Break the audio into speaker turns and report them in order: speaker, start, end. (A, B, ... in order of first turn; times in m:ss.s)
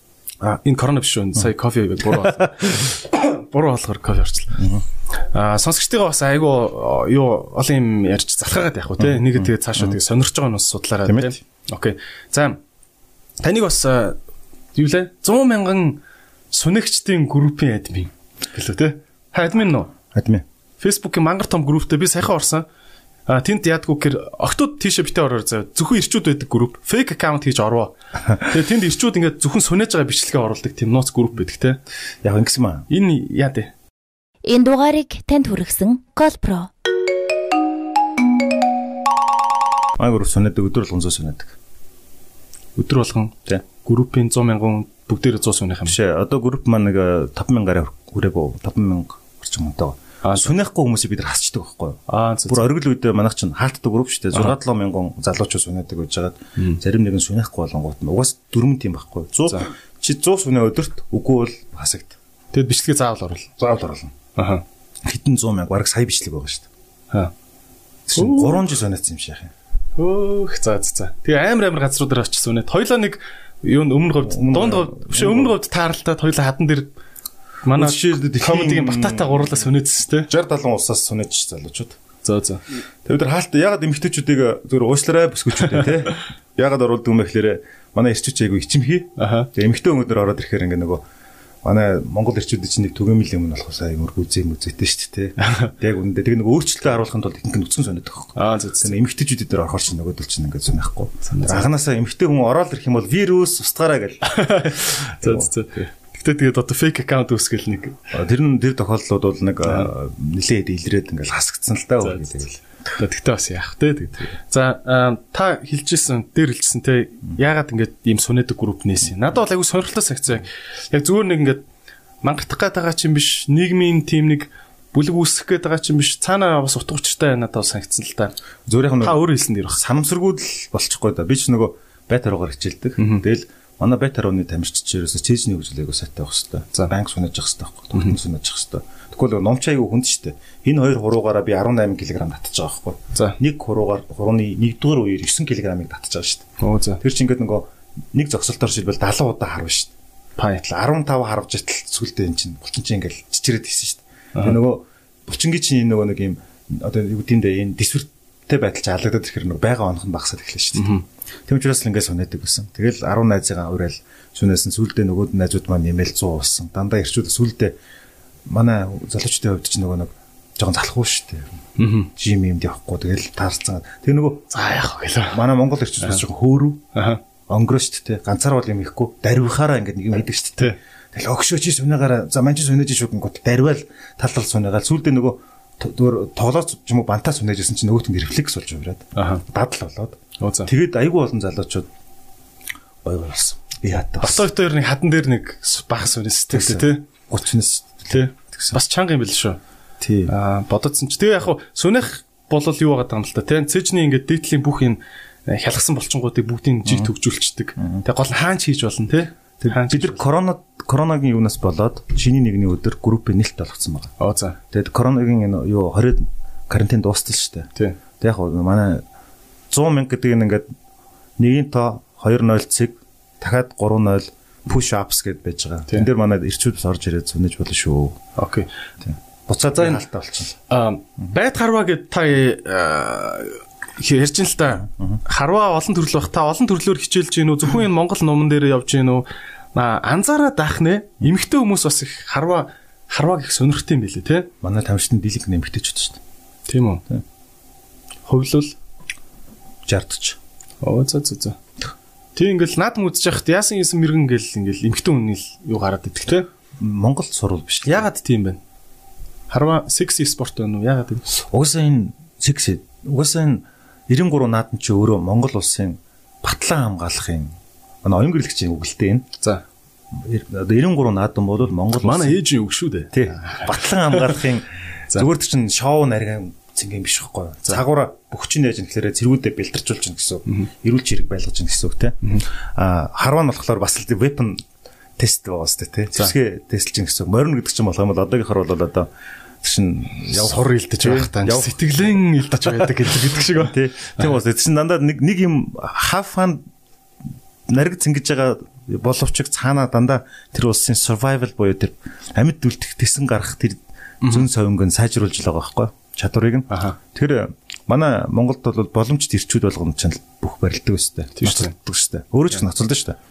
0:00.4-0:04.7 A
0:02.1-0:02.5 B
0:04.6-0:04.8 B
0:05.2-0:12.6 A
0:09.0-0:10.0 B
0:11.0-0:11.3 B
0:13.4-0:14.2 A
0:14.8-0:19.9 A
0:20.1-0:20.4 B
0:20.8-0:22.6 A
0:23.3-0:31.8 A
0:32.2-0:32.9 B
0:32.9-0:33.7 A
0:34.4-0:36.7 C
0:40.0-0:41.6 B
0:42.8-0:46.0 A
0:45.9-1:02.2 B
0:50.2-0:50.5 A
0:52.1-0:52.7 A
1:02.5-1:03.5 A
1:03.6-1:04.2 B
1:04.4-1:04.6 A
1:05.0-1:06.7 B
1:08.1-1:09.5 B
1:08.2-1:08.7 A
1:10.0-1:16.9 A
1:14.2-1:15.6 B
1:17.6-1:20.3 A
1:17.7-1:19.6 B
1:20.3-1:22.0 B
1:22.2-1:22.6 A
1:23.0-1:31.0 B
1:29.2-1:29.5 A
1:31.6-1:45.8 B
1:35.4-1:35.7 A
1:38.4-1:38.9 A
1:41.3-1:41.7 A
1:44.3-1:48.0 A
1:48.1-1:52.6 B
1:52.0-2:01.6 A
2:02.2-2:08.4 A
2:08.7-2:26.5 B
2:09.0-2:09.8 A
2:13.0-2:13.2 A
2:26.6-2:27.0 A
2:27.0-2:29.9 B
2:30.4-2:30.7 A
2:30.6-2:47.8 B
2:40.8-2:41.0 A
2:48.5-2:51.5 B
2:51.8-2:52.1 A
2:52.2-2:54.5 B
2:54.5-2:55.4 A
2:55.3-2:56.8 B
2:56.9-2:57.2 A
2:57.5-3:11.9 B
3:09.2-3:09.4 A
3:10.4-3:10.7 A
3:13.0-3:14.5 B
3:14.2-3:17.1 A
3:16.5-3:18.8 B
3:18.1-3:19.6 A
3:20.0-3:20.3 B
3:20.3-3:30.2 A
3:26.8-3:27.1 B
3:27.8-3:28.0 B
3:29.6-3:34.2 B
3:34.2-3:34.6 A
3:34.7-3:37.7 B
3:38.2-3:39.0 B
3:39.7-3:40.7 B
3:41.4-3:48.2 B
3:48.4-3:48.7 A
3:49.0-3:50.6 B
3:50.7-4:04.5 A
4:04.6-4:06.2 B
4:06.7-4:07.0 A
4:08.3-4:08.8 A
4:09.8-4:10.4 B
4:10.8-4:11.6 A
4:12.4-4:16.5 A
4:16.8-4:18.1 B
4:17.9-4:18.6 A
4:19.5-4:21.2 A
4:21.3-4:29.3 B
4:30.1-4:32.4 B
4:32.0-4:34.3 A
4:33.1-4:44.6 B
4:45.2-4:49.1 B
4:49.6-4:52.0 B
4:50.3-4:53.8 A
4:52.6-4:56.6 B
4:57.7-5:13.2 B
5:04.2-5:04.5 A
5:06.7-5:07.0 A
5:11.4-5:11.7 A